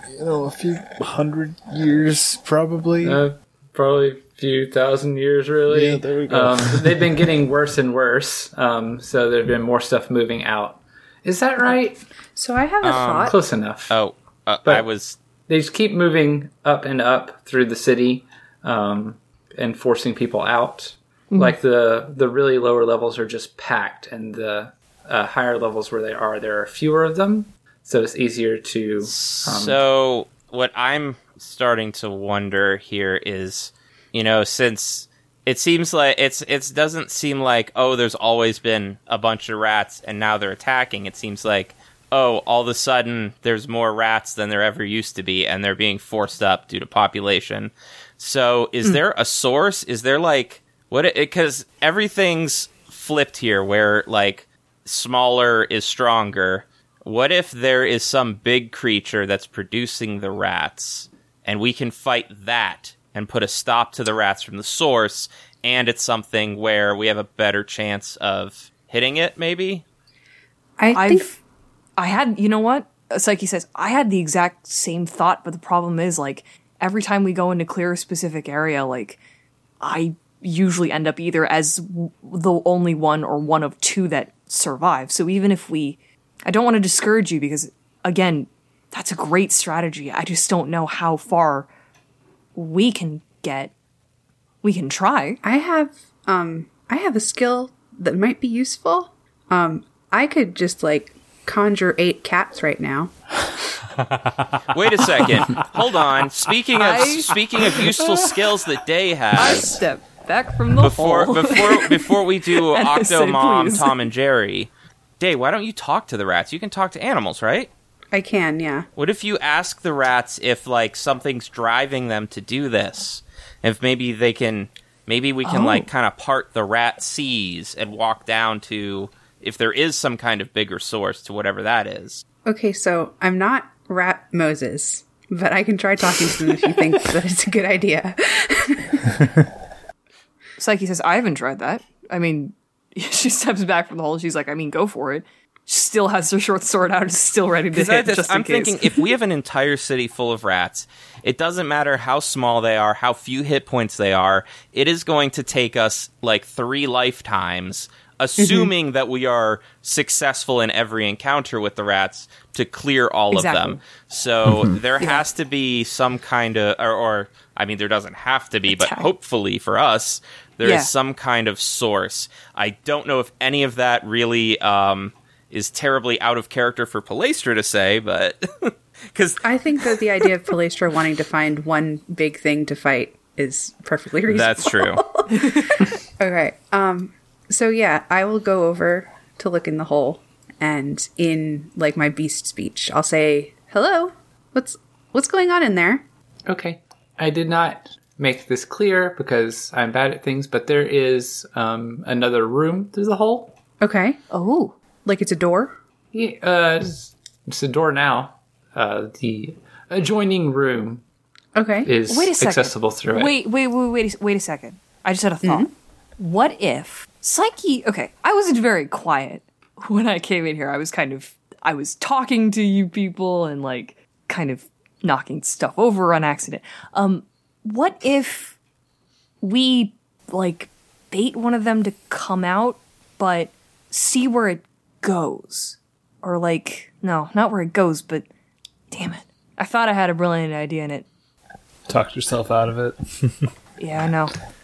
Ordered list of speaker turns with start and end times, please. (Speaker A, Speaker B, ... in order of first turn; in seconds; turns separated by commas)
Speaker A: 0.1-3.2, Speaker B: 3.0-12.0, Speaker A: 5.7-7.3, Speaker C: 12.4-13.4, Speaker D: 12.8-13.4, Speaker B: 13.2-14.0, Speaker D: 13.9-15.2, Speaker B: 15.5-29.8, Speaker D: 29.0-69.8, Speaker C: 70.8-71.3, Speaker E: 70.9-71.4, Speaker E: 72.0-79.2, Speaker E: 79.8-91.7, Speaker E: 92.5-93.7, Speaker E: 94.6-95.4, Speaker C: 95.4-103.1, Speaker D: 104.7-109.8, Speaker E: 106.8-107.4, Speaker E: 109.4-114.0, Speaker D: 110.8-117.7, Speaker C: 118.1-118.9, Speaker D: 119.0-132.2, Speaker E: 125.5-125.9, Speaker C: 132.4-139.2, Speaker E: 140.6-149.1, Speaker D: 147.7-179.4, Speaker C: 158.4-158.7, Speaker E: 163.3-163.8, Speaker A: 164.5-164.7, Speaker E: 168.7-169.1, Speaker E: 170.6-170.9, Speaker C: 179.4-196.1, Speaker D: 184.3-185.1, Speaker E: 185.3-185.8, Speaker B: 196.5-203.6, Speaker C: 203.8-204.2, Speaker E: 204.3-204.8, Speaker C: 205.1-205.8, Speaker B: 206.1-211.0, Speaker C: 211.6-211.9, Speaker B: 211.8-213.3, Speaker E: 212.1-228.6, Speaker C: 215.4-215.7, Speaker E: 229.4-238.3, Speaker E: 238.9-241.1, Speaker A: 241.9-243.5, Speaker E: 243.8-244.3